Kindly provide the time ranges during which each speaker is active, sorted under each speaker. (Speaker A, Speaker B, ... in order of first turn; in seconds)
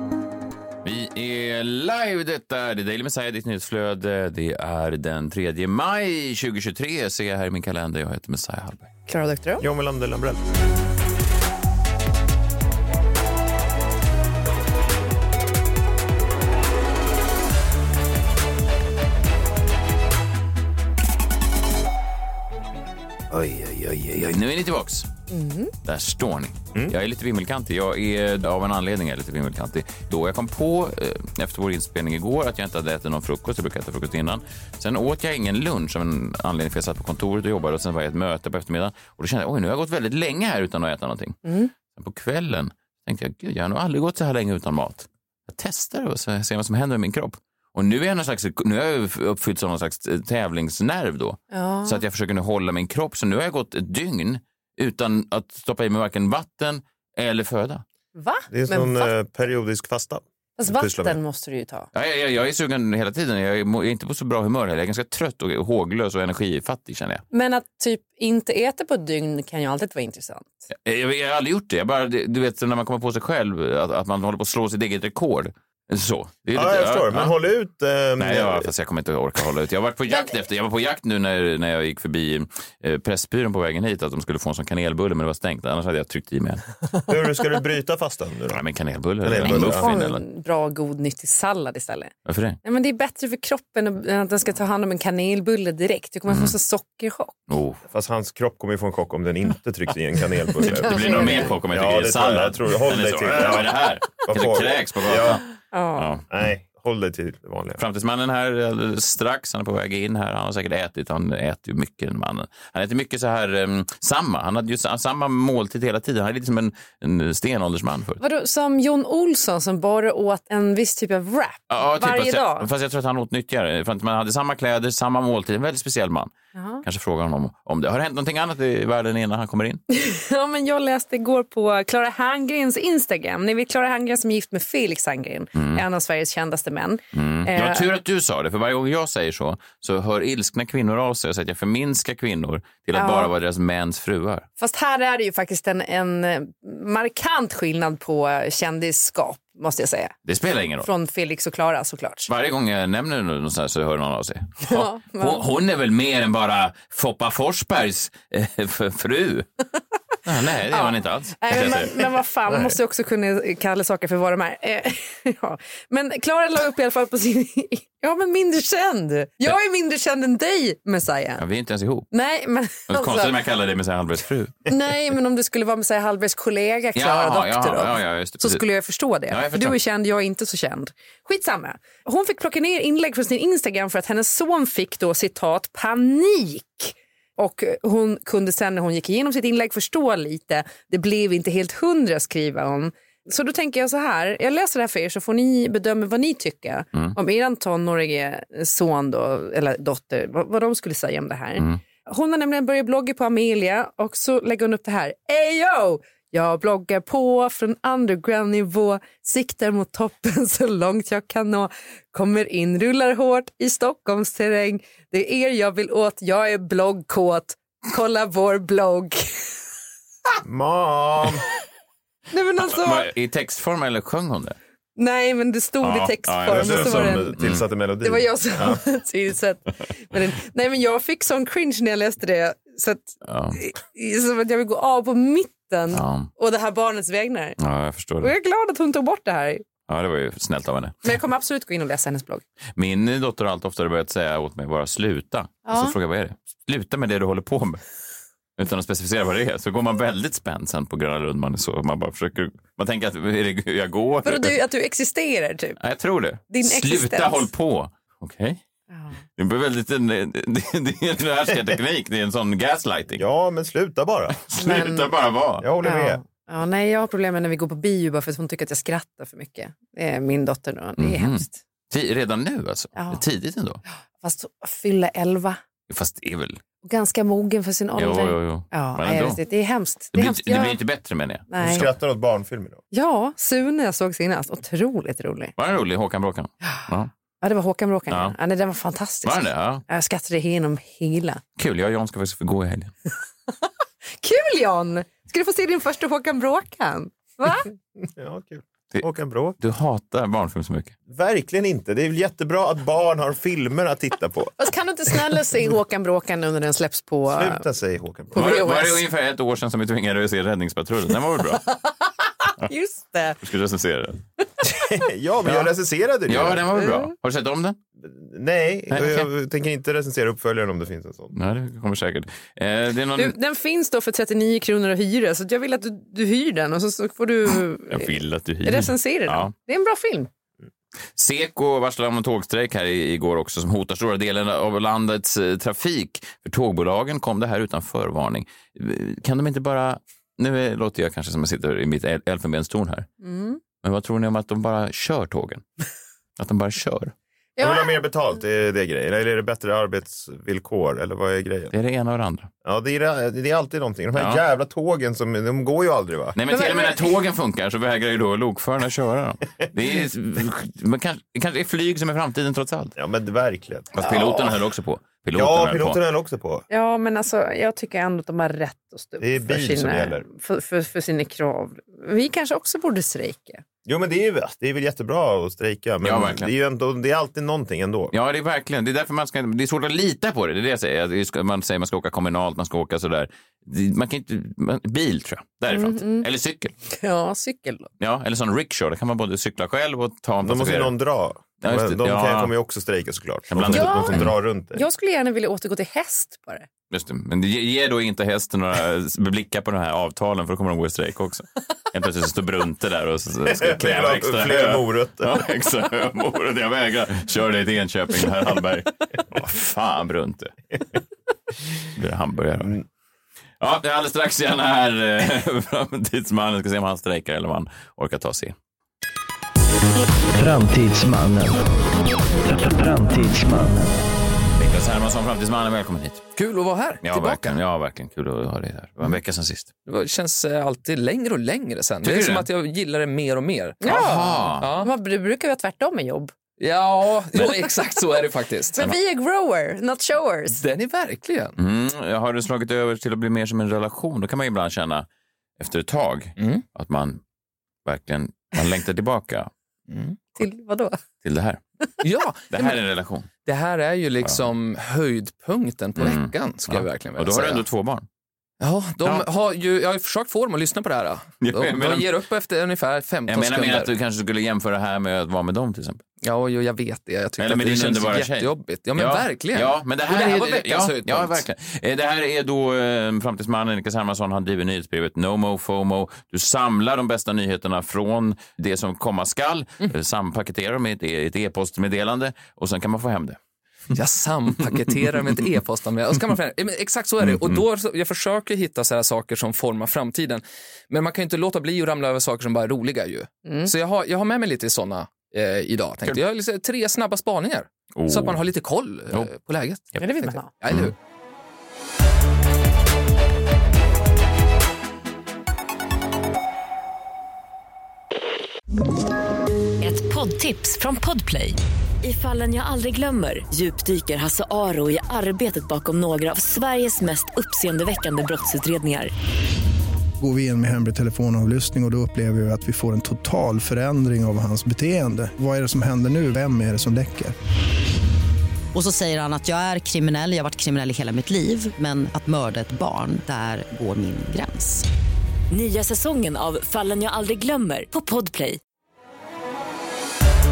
Speaker A: 0.8-8.9, 23.7-25.1, 25.8-41.4, 41.9-57.8, 61.9-67.2, 70.8-77.3, 78.2-86.6, 88.5-90.2, 92.2-92.6, 96.3-96.5, 97.5-97.8, 100.6-105.4, 106.0-106.2, 107.8-118.2, 121.7-126.3, 126.8-129.8, 135.5-135.8, 137.1-144.4, 150.2-150.9, 152.3-159.4, 160.2-162.7, 171.4-172.1, 172.9-174.5, 176.9-178.7, 179.3-179.7, 222.7-224.6, 225.8-227.6, 233.2-233.6, 235.9-236.3, 237.6-238.3, 239.9-240.9, 242.8-247.8, 248.6-254.6, 255.8-258.6, 259.4-263.2, 264.5-265.6, 271.0-273.8, 275.9-276.6, 277.9-279.4, 280.1-281.9, 285.6-287.1, 288.1-288.3, 289.2-289.8, 291.6-292.9, 299.6-300.9, 308.3-311.6, 313.4-314.2, 315.4-315.7, 316.3-317.8, 318.9-319.3, 321.3-323.4, 327.9-329.5, 331.1-343.1, 343.8-345.6, 346.4-347.1, 351.7-352.5, 354.1-354.4, 356.4-362.9, 363.9-366.0, 376.0-376.5, 378.1-386.7, 388.0-390.9, 391.6-392.5, 393.5-394.3, 396.9-410.5, 411.9-412.8, 413.6-418.5, 424.6-426.2, 427.0-429.7, 432.0-432.5, 433.8-434.7, 441.6-445.1, 445.6-447.2, 447.9-449.5, 451.2-451.6, 452.5-453.3, 454.2-454.5, 456.0-458.1, 461.4-462.1, 463.3-466.0, 467.4-483.4, 487.2-487.6, 497.9-498.4, 500.7-500.9
Speaker B: 9.1-9.6, 25.3-25.7, 41.4-41.7, 51.5-52.0, 58.1-59.1, 60.6-61.9, 67.3-70.5, 80.1-80.3, 89.4-92.1, 92.6-97.4, 100.6-101.5, 105.7-106.2, 118.2-122.7, 126.5-126.8, 129.9-137.9, 142.9-143.3, 144.6-150.1, 150.8-152.3, 154.6-155.4, 160.6-171.4, 172.1-173.3, 174.7-219.3, 222.3-223.1, 225.0-227.3, 228.0-237.6, 238.2-239.7, 241.0-242.4, 245.7-245.9, 254.2-255.8, 256.5-257.5, 258.9-259.2, 264.6-265.1, 265.8-271.6, 272.9-273.2, 274.2-275.6, 276.8-280.8, 281.5-281.9, 282.9-285.5, 287.4-291.4, 294.2-297.7, 304.6-307.6, 308.3-309.0, 312.6-313.4, 316.8-317.1, 323.2-330.3, 343.2-343.6, 347.6-348.0, 356.5-357.1, 364.0-364.6, 366.7-373.6, 385.7-386.2, 386.9-387.9, 393.7-396.7, 433.8-436.3, 437.3-437.7, 438.8-440.6, 450.4-451.0, 493.4-493.7, 500.0-500.5
Speaker C: 9.6-10.4, 23.3-24.0, 58.5-61.2, 76.5-78.7, 87.1-88.6, 89.2-90.0, 97.9-105.4, 106.3-107.8, 220.4-221.4, 226.5-228.8, 263.1-264.7, 265.6-266.2, 281.6-282.8, 298.0-299.6, 301.1-304.6, 307.2-308.6, 314.7-316.6, 318.0-321.4, 347.6-351.7, 352.6-356.4, 363.0-363.9, 365.3-366.6, 369.2-370.2, 373.9-378.1, 390.4-394.8, 403.5-405.4
Speaker D: 420.3-421.7, 422.4-424.1
Speaker E: 426.4-427.6, 429.9-434.9, 436.6-438.8, 440.5-441.6, 446.4-446.6, 449.9-450.2, 452.0-452.8, 453.4-457.6, 458.6-463.9, 466.2-471.4, 483.9-500.9
Speaker F: 509.8-519.1, 535.5-538.6
Speaker G: 520.2-527.3
Speaker H: 528.7-534.9